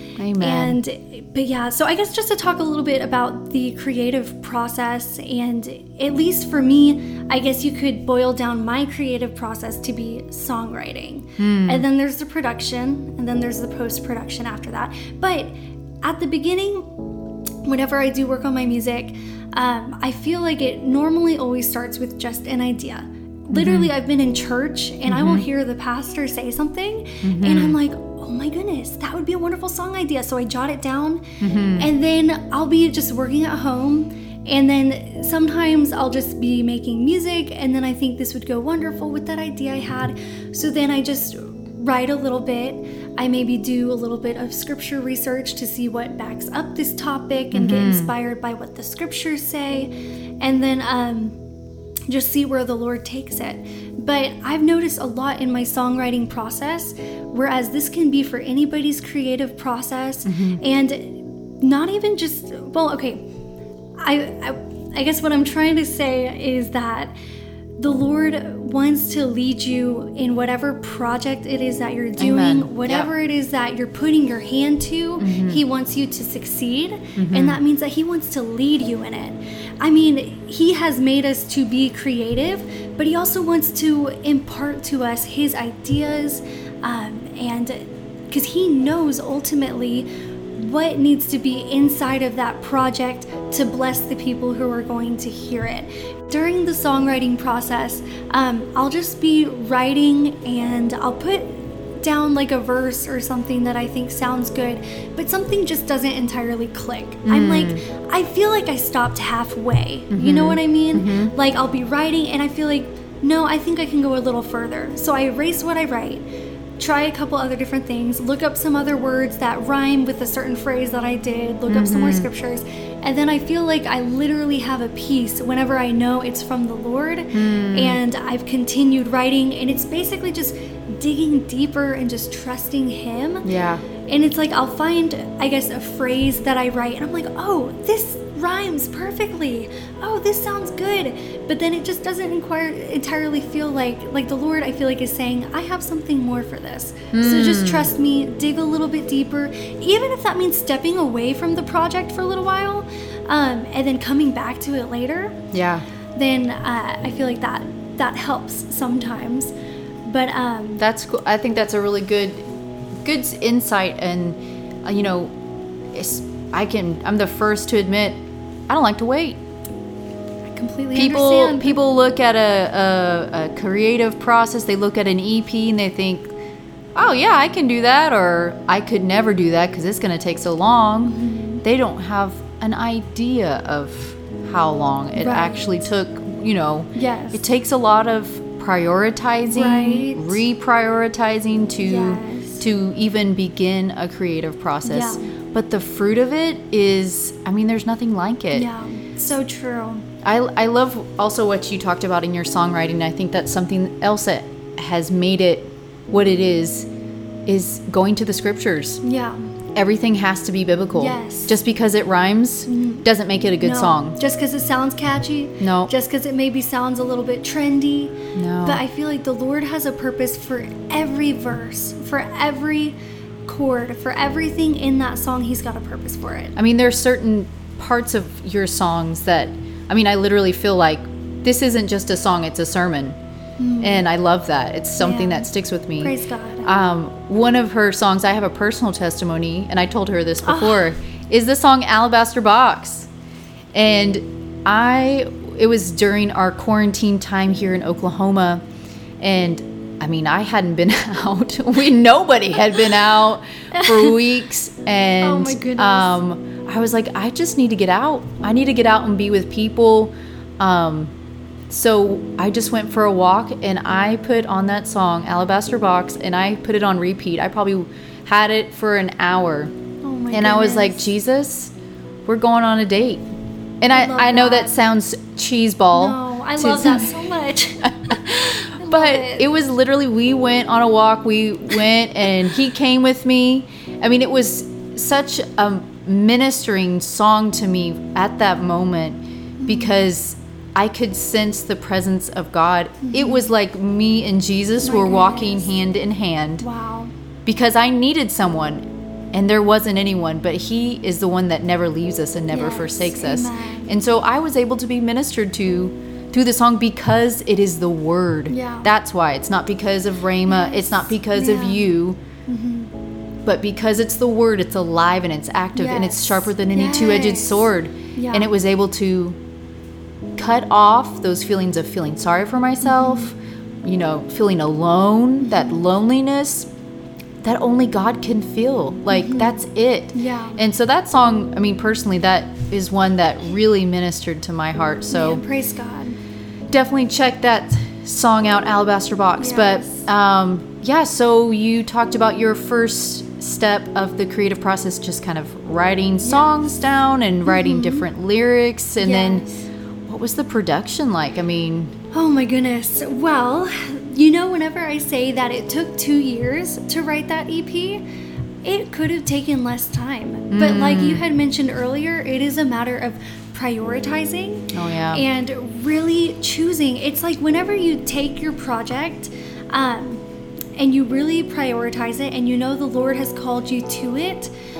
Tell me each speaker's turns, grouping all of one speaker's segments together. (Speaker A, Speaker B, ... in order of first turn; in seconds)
Speaker A: 0.2-0.8, 11.4-11.8, 23.5-23.9, 25.1-25.5, 27.2-27.8, 31.4-31.9, 47.5-48.1, 60.3-60.6, 72.2-73.1, 75.2-75.6, 77.2-77.6, 107.3-107.8, 110.1-111.3, 121.7-122.3, 127.3-128.0, 133.4-133.8, 147.1-147.9, 155.5-155.9, 160.8-162.5, 163.0-165.3, 165.9-168.2, 168.7-169.4, 170.9-176.3, 176.9-198.7, 200.2-206.9, 207.5-209.0, 209.8-214.2, 215.6-215.9, 218.3-218.8, 226.6-233.2, 233.8-243.1, 243.7-248.6, 249.2-261.1, 261.7-269.7, 270.3-271.7, 272.3-273.2, 273.8-277.1, 277.8-296.7, 297.5-312.2, 313.4-319.4, 320.4-326.7, 327.4-335.4, 336.7-349.5, 350.1-351.9, 360.5-361.2, 364.7-365.2
Speaker B: 0.4-16.9, 17.6-51.4, 52.1-63.2, 64.0-67.1, 67.8-116.2, 116.8-133.5, 134.1-155.4, 156.2-159.5, 160.1-160.8, 170.5-171.8, 181.0-181.6, 185.2-185.6, 186.9-187.4, 189.5-190.4, 191.8-192.7, 194.8-195.3, 198.5-200.1, 209.0-209.5, 210.9-211.6, 212.7-213.1, 213.6-223.0, 223.5-226.6, 233.6-234.0, 235.0-236.7, 240.4-240.9, 253.7-254.2, 255.2-256.2, 270.0-271.1, 273.9-274.8, 275.9-279.5, 289.6-290.1, 293.0-293.5, 294.8-295.8, 296.6-297.1, 302.5-303.9, 308.5-308.9, 310.5-311.9, 312.5-312.9, 315.8-318.5, 322.8-323.3, 325.4-325.8, 329.1-329.6, 330.1-330.6, 335.1-336.2, 339.4-340.1, 346.2-346.5, 347.5-348.1, 349.0-349.7, 352.1-358.0, 358.6-370.2, 370.8-374.5